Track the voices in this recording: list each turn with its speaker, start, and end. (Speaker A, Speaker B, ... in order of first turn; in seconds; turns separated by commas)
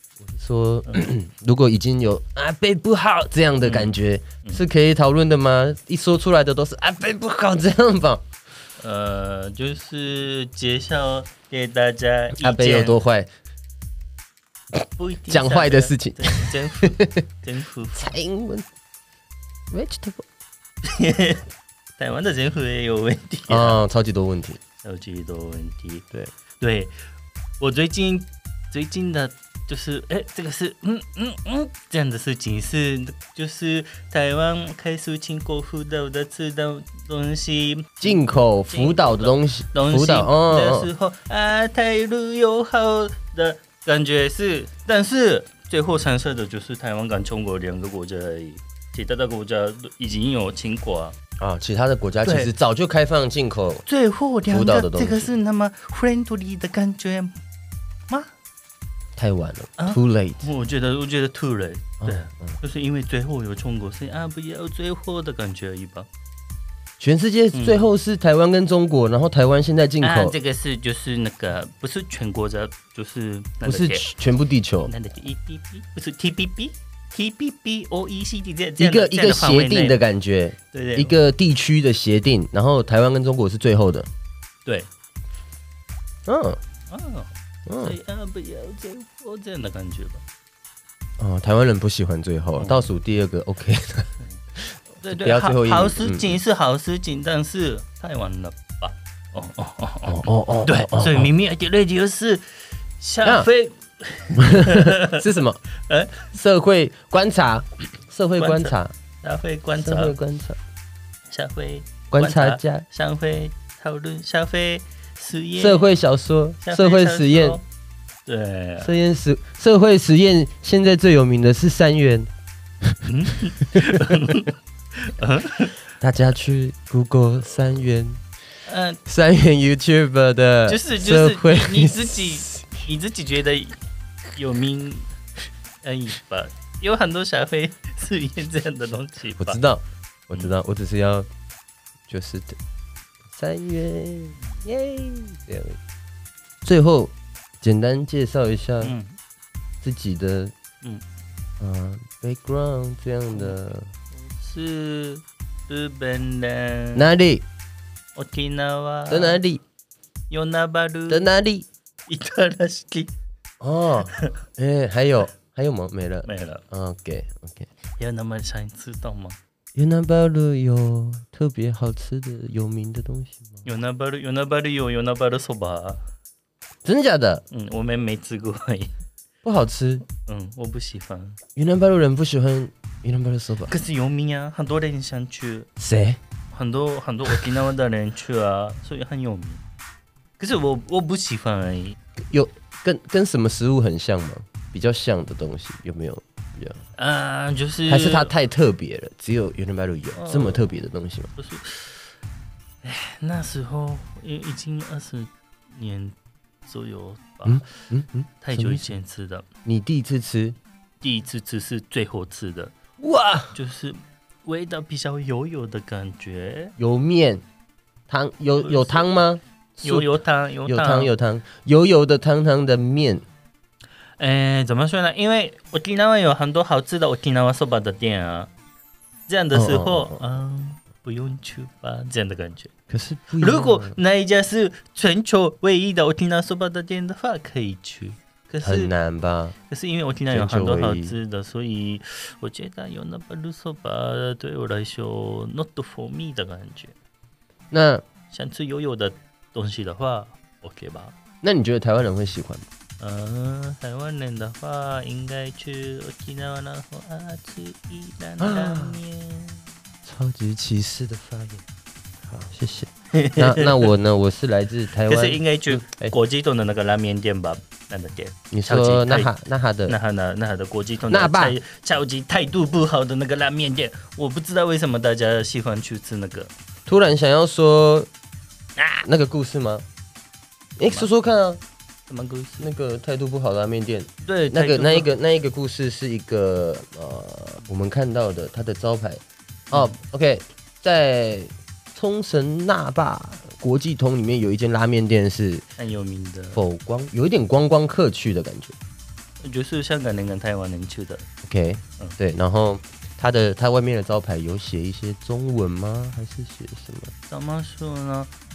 Speaker A: 0.2-8.2, Speaker B: 3.6-4.6, Speaker B: 8.8-13.0, Speaker A: 12.4-13.3, Speaker B: 15.0-18.1, Speaker A: 15.3-17.2, Speaker A: 17.9-18.6, Speaker A: 19.7-20.2, Speaker B: 20.8-21.4, Speaker B: 22.0-23.8, Speaker A: 23.5-24.6, Speaker B: 24.8-26.0, Speaker B: 26.6-27.1, Speaker B: 27.6-51.2, Speaker A: 38.0-40.9, Speaker A: 51.4-53.8, Speaker B: 52.2-52.5, Speaker B: 53.9-57.4, Speaker A: 54.5-55.3, Speaker A: 59.1-60.5, Speaker B: 59.8-66.1, Speaker A: 62.0-62.6, Speaker A: 67.0-70.3, Speaker B: 67.5-67.9, Speaker B: 70.0-74.1, Speaker A: 73.6-74.9, Speaker B: 74.8-80.0, Speaker A: 78.8-84.1, Speaker B: 80.7-81.2, Speaker A: 86.2-86.6, Speaker B: 86.9-90.2, Speaker A: 87.7-88.0, Speaker A: 91.2-96.4, Speaker B: 92.6-92.9, Speaker B: 95.0-105.2, Speaker A: 100.0-101.3, Speaker A: 103.2-103.5, Speaker A: 104.3-105.6, Speaker B: 105.8-106.3, Speaker A: 106.3-108.9, Speaker B: 108.4-110.2, Speaker A: 109.7-110.6, Speaker B: 111.3-115.9, Speaker A: 112.1-112.8, Speaker A: 115.6-117.6, Speaker B: 116.6-117.6, Speaker B: 118.2-118.9, Speaker A: 118.8-122.3, Speaker B: 123.0-125.8, Speaker A: 126.0-128.2, Speaker B: 128.6-129.0, Speaker A: 129.1-132.8, Speaker B: 130.7-133.8, Speaker B: 134.3-135.1, Speaker B: 135.8-139.6, Speaker A: 139.4-141.3, Speaker A: 142.1-142.6, Speaker A: 143.3-145.8, Speaker B: 144.4-144.7, Speaker A: 146.6-148.9, Speaker B: 148.8-149.2, Speaker A: 149.8-150.5, Speaker A: 151.6-153.9, Speaker B: 153.3-153.6, Speaker B: 154.1-157.1, Speaker A: 156.9-157.4, Speaker B: 158.2-159.4, Speaker A: 159.1-159.6, Speaker B: 160.3-161.3, Speaker A: 161.1-161.7, Speaker B: 162.1-163.1, Speaker A: 163.6-167.7, Speaker B: 166.2-166.6, Speaker B: 168.0-169.4, Speaker A: 169.8-173.7, Speaker B: 173.6-176.0, Speaker A: 176.8-177.4, Speaker B: 177.5-178.9, Speaker A: 179.4-180.0, Speaker B: 180.2-181.4, Speaker A: 181.6-183.7, Speaker B: 183.7-185.7, Speaker A: 185.8-186.2, Speaker B: 186.5-189.6, Speaker B: 190.4-192.0, Speaker A: 192.3-196.8, Speaker B: 196.9-198.3, Speaker A: 197.9-201.3, Speaker B: 200.1-200.7, Speaker B: 201.4-202.1, Speaker B: 202.8-207.7, Speaker A: 207.4-208.9, Speaker B: 208.4-209.5, Speaker A: 209.6-210.6, Speaker B: 211.0-212.7, Speaker A: 213.0-213.5, Speaker B: 213.5-216.7, Speaker A: 216.8-217.4, Speaker A: 218.1-223.2, Speaker B: 218.6-219.1, Speaker B: 219.8-221.1, Speaker B: 224.2-228.5, Speaker B: 229.3-232.7, Speaker A: 229.5-230.2, Speaker A: 232.9-234.0, Speaker B: 233.4-238.9, Speaker A: 238.6-239.6, Speaker B: 239.7-246.9, Speaker A: 240.3-241.2, Speaker A: 247.7-248.0, Speaker B: 248.3-251.1, Speaker A: 251.4-252.6, Speaker B: 253.0-259.7, Speaker A: 258.4-259.0, Speaker A: 260.0-261.6, Speaker A: 262.3-266.1, Speaker B: 263.1-263.9, Speaker B: 265.0-269.3, Speaker A: 268.5-270.0, Speaker B: 269.9-276.5, Speaker A: 271.1-271.6, Speaker A: 276.9-278.1, Speaker A: 278.8-279.8, Speaker A: 280.8-281.6, Speaker B: 280.8-281.1, Speaker B: 282.1-282.7, Speaker A: 282.6-295.6, Speaker B: 284.2-285.1, Speaker B: 289.7-290.0, Speaker B: 295.8-296.6, Speaker A: 296.5-298.8, Speaker B: 299.4-301.2, Speaker A: 301.4-307.1, Speaker B: 307.3-308.3